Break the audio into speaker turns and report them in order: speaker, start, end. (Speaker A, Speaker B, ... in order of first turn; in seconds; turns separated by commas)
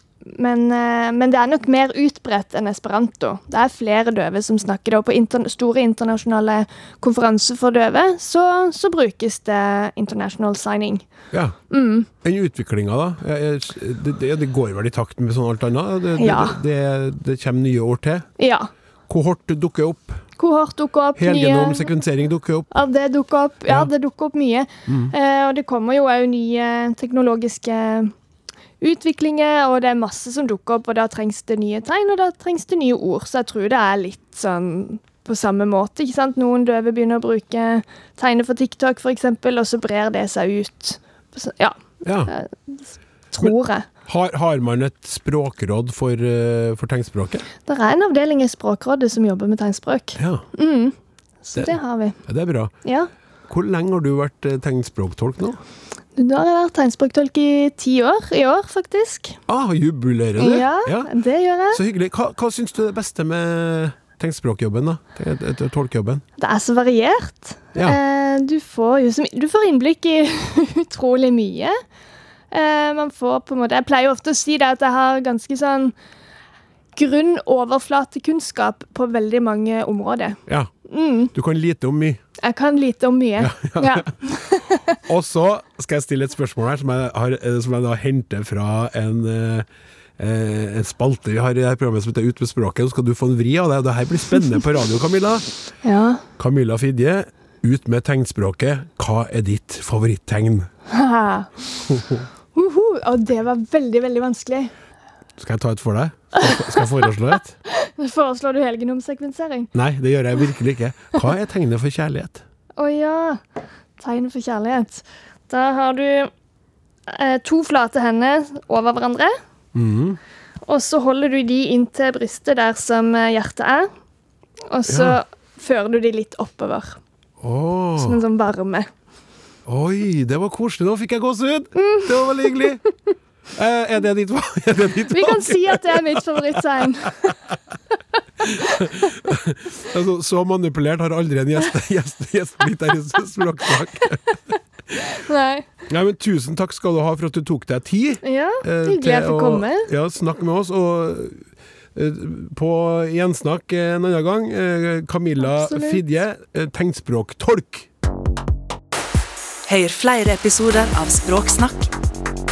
Speaker A: 0.2-11.1, Speaker B: 11.3-11.6, Speaker A: 11.7-12.1, Speaker B: 12.2-18.3, Speaker A: 16.2-16.6, Speaker A: 18.4-18.7, Speaker B: 19.1-20.2, Speaker A: 20.4-21.9, Speaker B: 21.2-22.7, Speaker A: 22.7-28.1, Speaker B: 24.9-25.1, Speaker A: 28.8-41.8, Speaker B: 42.0-42.3, Speaker A: 42.3-43.9, Speaker B: 43.4-47.4, Speaker A: 47.7-50.9, Speaker B: 50.1-50.4, Speaker A: 51.4-52.2, Speaker B: 51.5-52.7, Speaker A: 52.8-53.1, Speaker B: 53.5-55.6, Speaker A: 56.1-59.4, Speaker B: 59.5-61.1, Speaker A: 60.4-61.8, Speaker B: 61.7-66.2, Speaker A: 66.4-71.8, Speaker A: 72.5-75.9, Speaker A: 77.0-81.3, Speaker B: 80.5-80.7, Speaker B: 81.3-82.2, Speaker A: 82.4-84.8, Speaker B: 83.4-84.1, Speaker B: 85.1-89.7, Speaker B: 90.2-95.5, Speaker A: 95.8-96.2, Speaker B: 96.4-100.7, Speaker A: 100.9-101.6, Speaker B: 101.9-102.2, Speaker A: 102.5-104.7, Speaker B: 105.4-107.5, Speaker A: 106.3-109.7, Speaker B: 109.7-112.4, Speaker A: 112.8-113.4, Speaker A: 114.0-116.3, Speaker A: 117.1-119.4, Speaker B: 119.7-120.2, Speaker A: 120.7-123.9, Speaker A: 124.7-127.0, Speaker B: 124.9-125.2, Speaker B: 127.4-128.2, Speaker A: 128.0-128.9, Speaker B: 129.7-132.8, Speaker A: 131.7-132.9, Speaker B: 133.6-137.3, Speaker A: 135.1-137.3, Speaker B: 138.4-144.4, Speaker A: 145.3-145.7, Speaker B: 145.9-157.9, Speaker A: 148.2-149.9, Speaker A: 155.4-156.0, Speaker C: 159.7-161.9